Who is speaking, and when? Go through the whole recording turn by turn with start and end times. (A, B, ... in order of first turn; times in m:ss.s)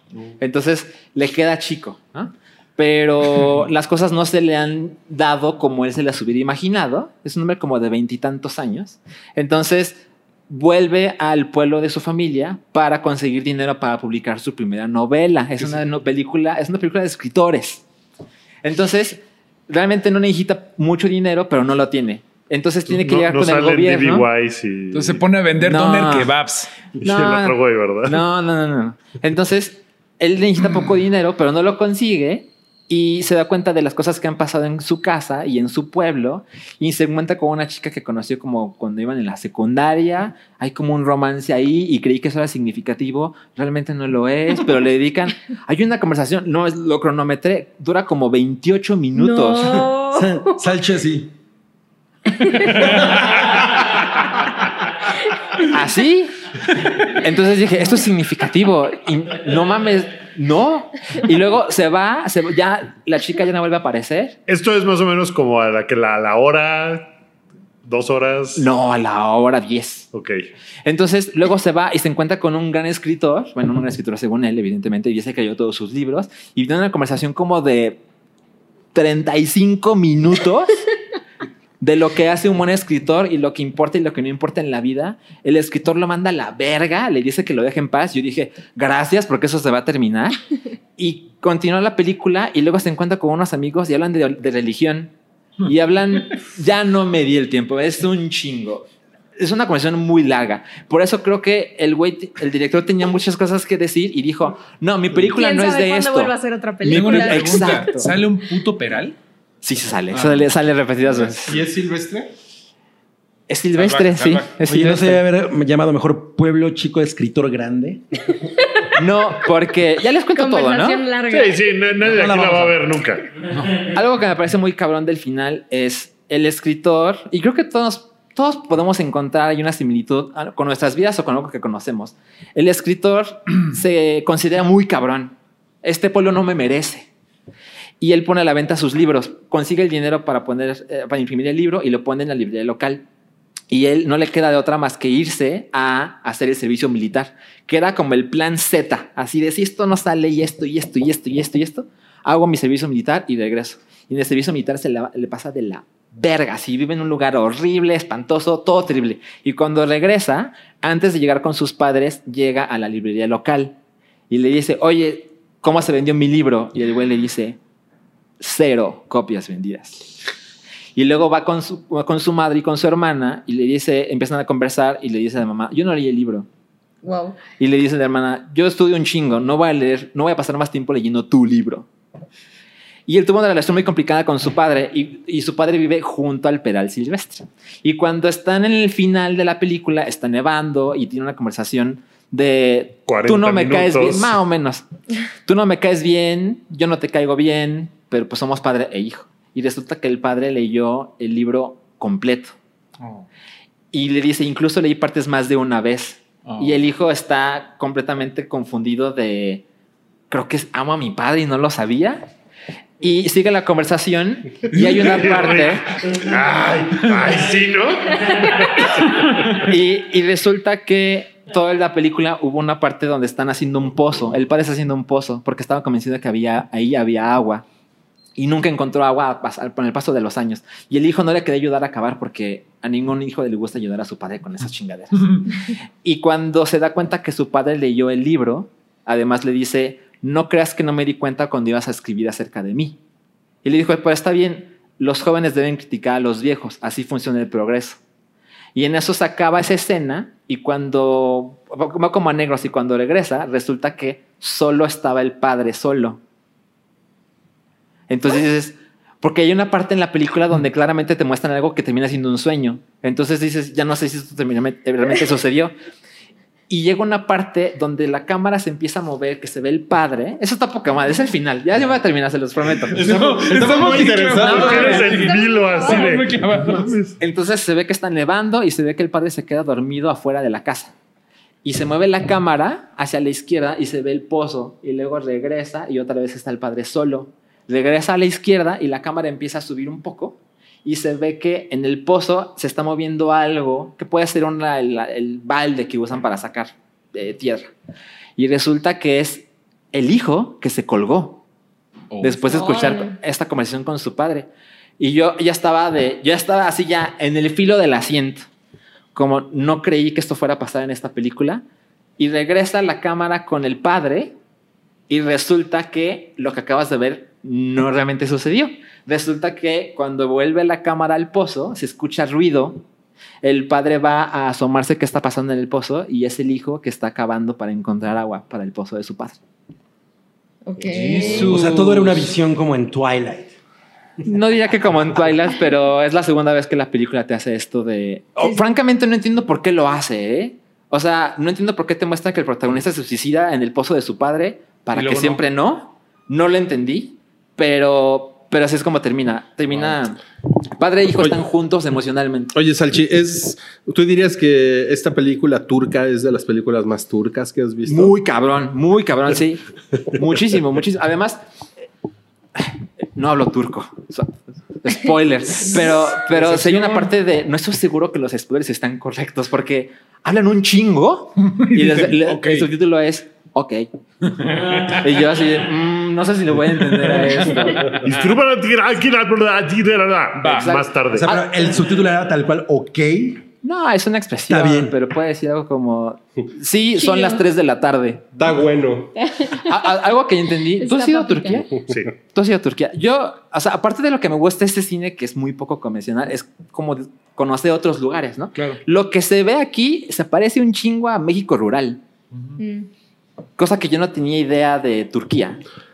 0:00.4-0:17.8 A
0:18.6-0:24.3 A
0:22.9-0:25.2 B
0:24.9-0:26.7 C
0:25.6-0:26.4 A
0:27.0-0:28.2 B
0:27.0-0:49.8 A
0:49.2-0:50.6 D
0:50.1-0:51.3 E
0:52.4-0:53.0 D
0:55.6-1:04.4 A
1:04.5-1:07.1 B
1:07.8-1:08.7 B
1:08.6-1:10.1 A
1:10.1-1:10.4 B
1:10.8-1:18.0 A
1:18.9-1:20.8 A
1:21.8-1:30.4 A
1:31.0-1:35.1 A
1:35.6-1:48.1 A
1:45.3-1:47.8 D
1:46.9-1:49.2 C
1:49.6-1:51.6 A
1:50.1-1:50.5 C
1:51.4-1:52.3 F
1:53.5-1:55.2 A
1:53.8-1:54.6 C
1:54.7-1:58.0 E
1:58.9-2:01.0 A
2:00.3-2:01.6 D
2:01.3-2:03.2 B
2:02.1-2:02.7 E
2:03.8-2:17.1 A
2:18.0-2:23.0 A
2:23.7-2:43.8 A
2:44.3-2:47.6 A
2:48.4-2:50.1 A
2:51.0-2:56.5 A
2:57.0-2:57.4 D
2:57.6-3:01.9 A
3:03.1-3:14.8 A
3:13.1-3:14.4 B
3:15.4-3:22.6 A
3:23.0-3:23.3 C
3:23.9-3:29.6 A
3:26.5-3:26.8 C
3:30.3-3:32.3 A
3:33.0-3:35.8 A
3:34.9-3:39.5 B
3:39.6-3:47.6 A
3:48.4-3:55.5 A
3:56.0-4:03.0 A
4:03.6-4:08.0 A
4:08.8-4:16.2 A
4:18.1-4:25.7 A
4:26.7-4:33.2 A
4:32.9-4:35.2 F
4:33.0-4:37.0 C
4:34.4-4:37.2 B
4:35.1-4:36.1 D
4:37.2-4:40.9 A
4:41.6-4:57.7 A
4:58.4-5:01.4 A
5:02.1-5:02.5 C
5:02.2-5:08.5 A
5:02.5-5:03.2 D
5:09.1-5:11.6 A
5:12.2-5:14.4 A
5:15.1-5:22.8 A
5:23.4-5:29.4 A
5:30.6-5:31.4 D
5:30.9-5:32.2 C
5:31.2-5:32.2 A
5:31.2-5:33.5 E
5:34.2-5:50.2 A
5:44.9-5:45.4 C
5:50.8-5:52.5 A
5:52.5-5:58.1 F
5:57.9-6:01.4 A
6:02.6-6:13.9 A
6:05.7-6:07.1 C
6:11.6-6:12.7 C
6:14.3-6:15.0 C
6:14.9-6:17.9 A
6:16.8-6:18.1 C
6:18.0-6:21.3 B
6:20.4-6:20.8 C
6:20.5-6:21.5 A
6:21.1-6:23.4 E
6:23.6-6:28.3 A
6:24.5-6:25.0 E
6:27.0-6:27.4 D
6:28.4-6:29.1 F
6:29.2-6:29.9 D
6:29.6-6:31.7 A
6:30.8-6:31.6 D
6:32.3-6:42.0 A
6:38.6-6:38.8 C
6:42.6-6:42.9 D
6:43.6-6:45.6 A